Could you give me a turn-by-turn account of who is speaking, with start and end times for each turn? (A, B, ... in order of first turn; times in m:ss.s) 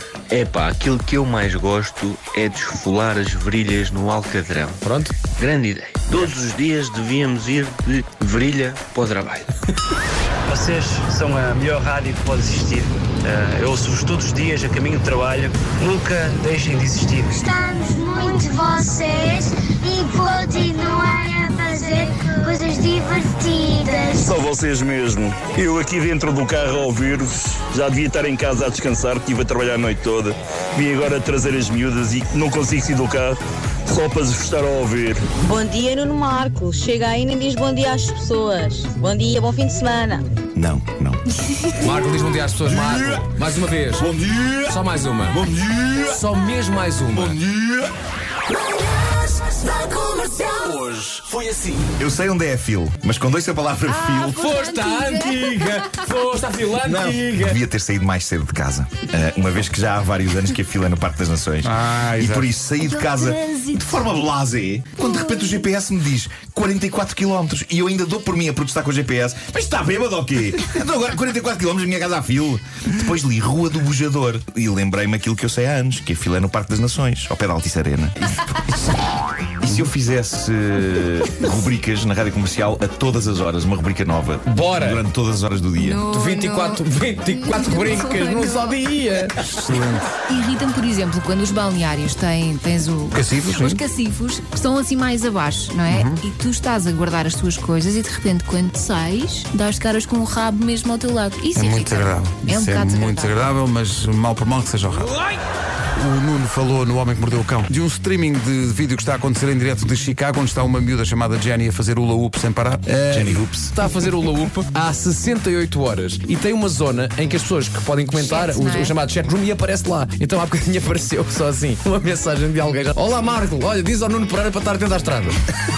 0:00.3-0:04.8 A
0:04.8-0:05.2 B
0:05.3-0:09.5 A
0:10.5-0:17.5 C
0:17.4-0:24.3 D
0:23.9-0:33.4 E
0:33.9-0:35.2 E
0:35.4-0:40.3 F
0:40.6-0:41.2 G
0:41.7-0:44.1 B
0:42.6-0:43.4 G
0:44.0-0:44.8 G
0:44.6-0:45.4 B
0:45.3-0:46.2 G
0:46.1-0:47.4 B
0:47.1-0:47.9 G
0:49.6-0:51.7 B
0:52.0-0:54.6 G
0:53.9-0:55.7 H
0:54.3-0:57.6 B
0:56.8-1:18.6 G
1:01.6-1:02.5 I
1:02.9-1:04.0 H
1:19.6-1:26.0 G
1:24.5-1:25.0 B
1:25.8-1:26.9 H
1:26.1-1:29.4 B
1:27.4-1:28.8 H
1:29.5-1:30.1 I
1:30.2-1:43.4 H
1:33.1-1:33.8 I
1:35.9-1:36.2 I
1:41.6-1:45.1 I
1:46.0-1:53.7 I
1:53.1-2:05.4 B
1:58.1-1:59.0 H